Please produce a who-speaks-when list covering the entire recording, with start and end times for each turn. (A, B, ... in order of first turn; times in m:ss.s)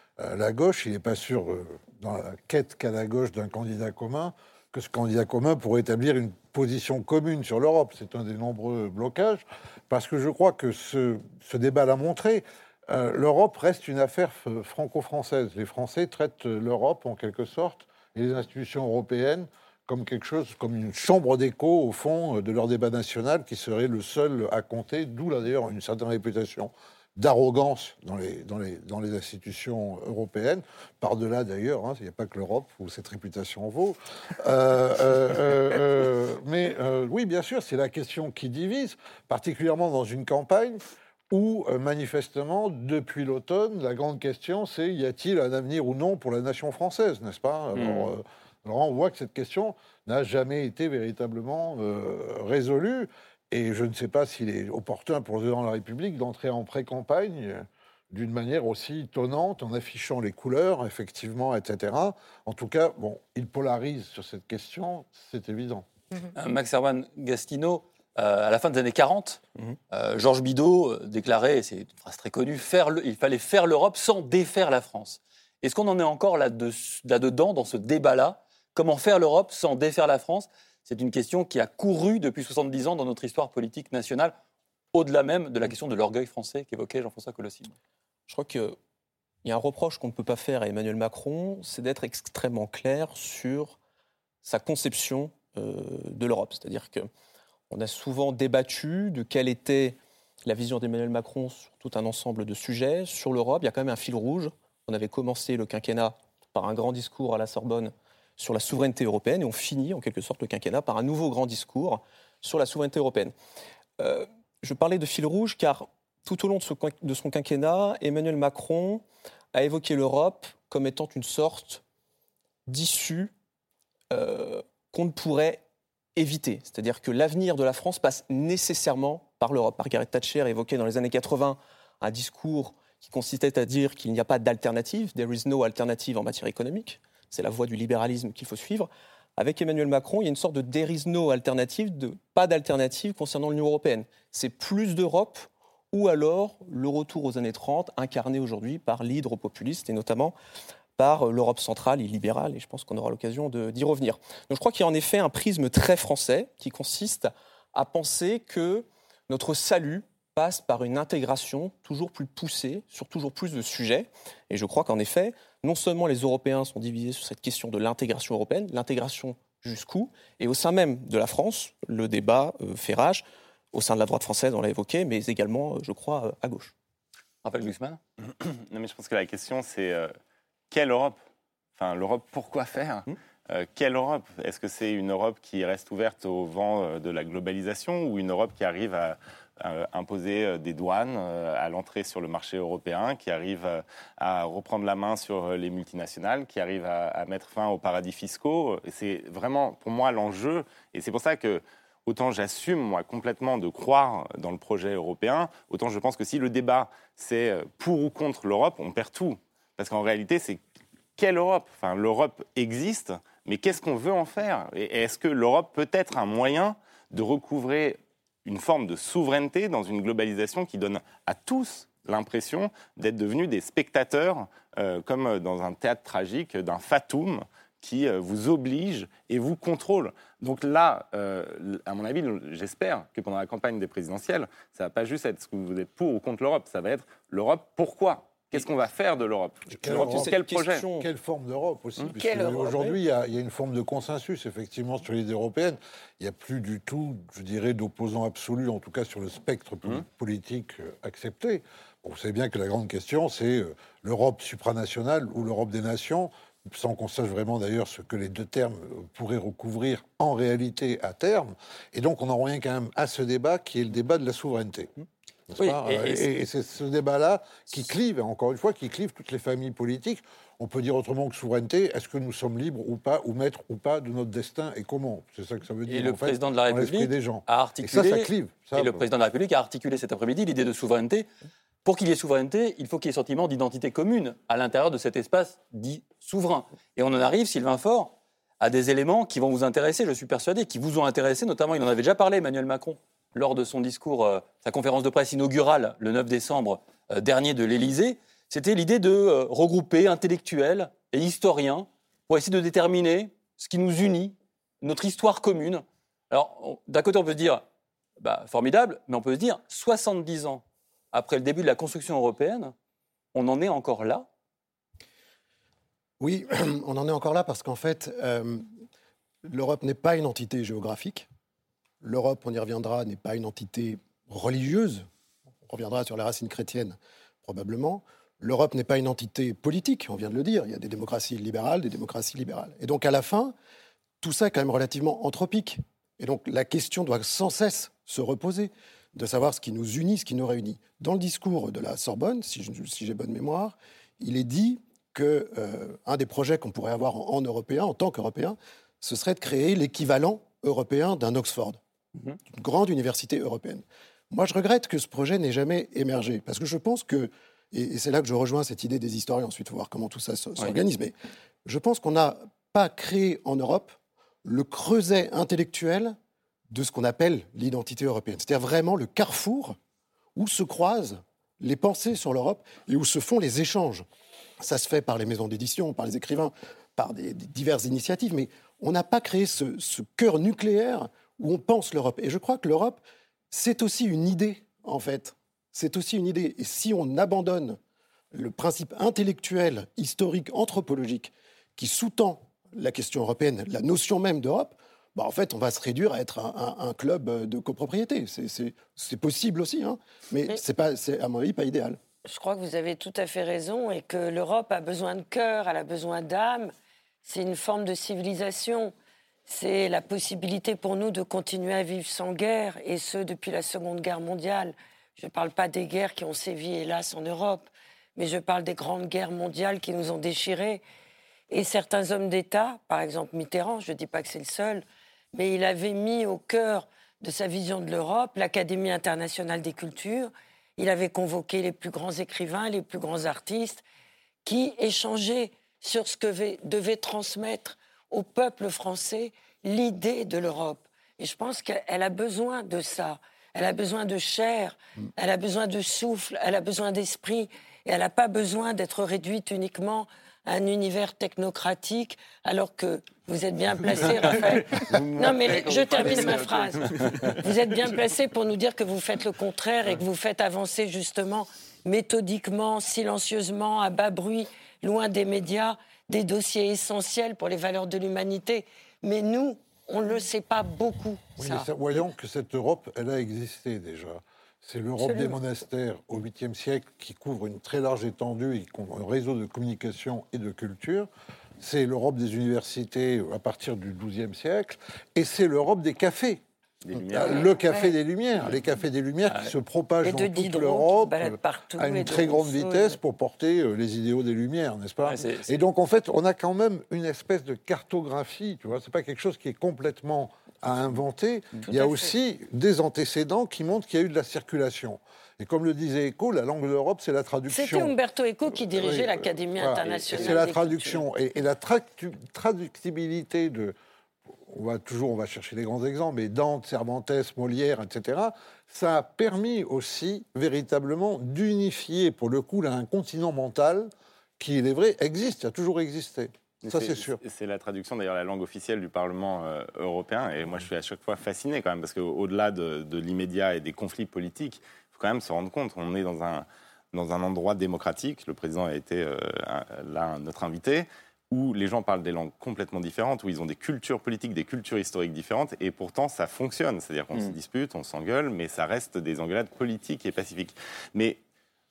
0:00.2-1:05.9 A
0:47.7-0:48.1 B
1:06.3-1:24.3 B
1:24.9-1:27.7 B
1:28.3-1:28.8 C
1:29.4-1:33.8 C
1:34.4-1:37.1 C
1:37.7-1:53.3 C
1:54.0-2:01.8 C
2:02.7-2:03.3 C
2:04.1-2:05.6 C
2:06.2-2:30.4 C
2:31.0-2:56.7 C
2:57.4-2:58.0 B
2:58.3-3:00.1 D
3:00.7-3:01.2 D
3:01.8-3:30.6 D
3:31.2-4:00.9 D
3:59.8-4:00.4 A
3:59.8-4:01.1 C
4:01.0-4:24.9 A
4:02.1-4:03.0 E
4:25.5-4:39.0 A
4:25.6-4:26.3 B
4:35.9-4:41.3 B
4:41.8-5:07.6 B
5:08.2-5:12.7 B
5:13.3-5:14.3 B
5:16.2-5:18.6 F
5:19.4-5:21.3 F
5:22.0-5:25.0 F
5:25.7-5:33.5 F
5:34.2-5:51.8 F
5:52.5-6:01.1 F
6:01.6-6:06.2 F
6:06.7-6:09.8 F
6:10.4-6:14.1 F
6:14.6-6:27.8 F
6:28.3-6:42.0 F
6:42.2-6:46.7 E
6:47.2-6:48.9 E
6:49.5-7:00.8 E
7:01.5-7:13.8 E
7:14.4-7:51.7 E
7:34.9-7:37.2 D
7:35.9-7:36.3 B
7:51.4-8:01.1 A
7:55.0-7:55.4 E
8:01.6-8:06.4 A
8:06.8-8:07.5 D
8:07.1-8:33.7 A
8:07.3-8:08.0 E
8:09.3-8:09.5 B
8:10.0-8:13.0 E
8:15.0-8:15.6 B
8:21.6-8:22.2 E
8:27.5-8:31.0 E
8:34.5-8:47.2 A
8:46.6-9:11.2 D